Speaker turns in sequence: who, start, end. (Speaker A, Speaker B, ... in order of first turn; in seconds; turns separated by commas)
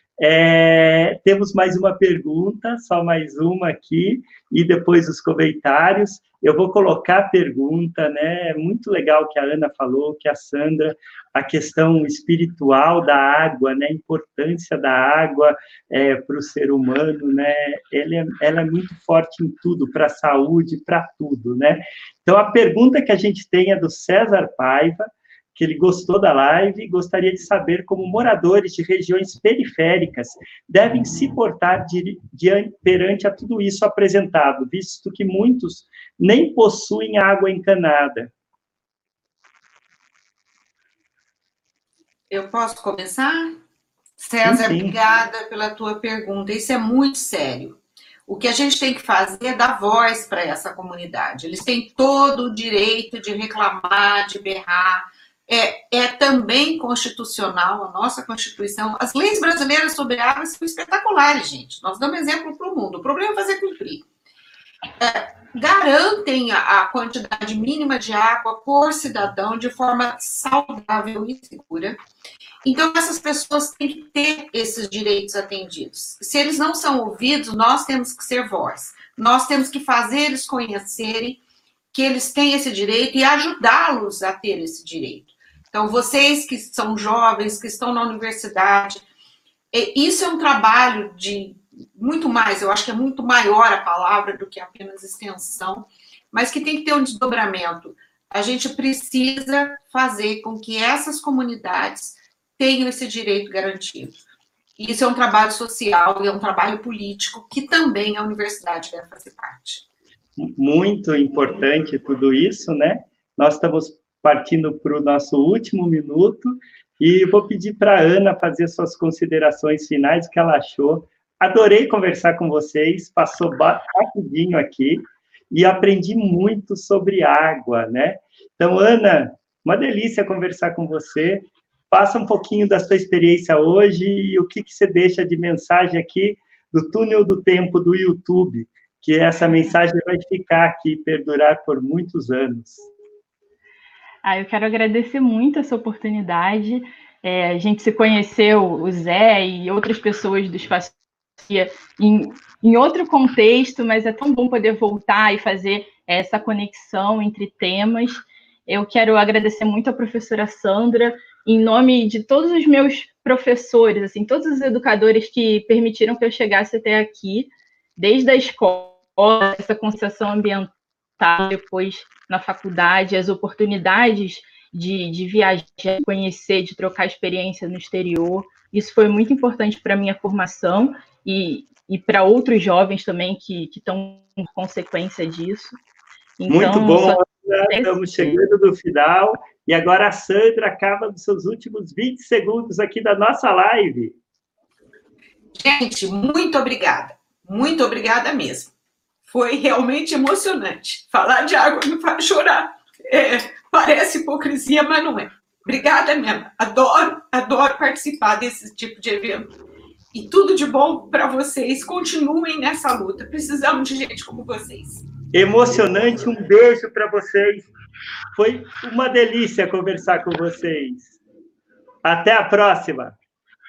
Speaker A: 0.2-38.3, Speaker B: 42.3-43.6, Speaker B: 44.2-64.0, Speaker A: 44.4-45.0, Speaker B: 65.0-72.0, Speaker B: 72.6-81.4, Speaker B: 81.9-89.0, Speaker B: 89.7-104.2, Speaker B: 104.8-109.8, Speaker A: 110.4-142.9, Speaker C: 144.2-185.8, Speaker C: 186.4-188.4, Speaker A: 186.5-194.2, Speaker B: 195.6-198.7, Speaker B: 199.3-209.6, Speaker B: 210.1-215.1, Speaker A: 215.3-217.7, Speaker A: 218.3-221.2, Speaker A: 222.0-223.2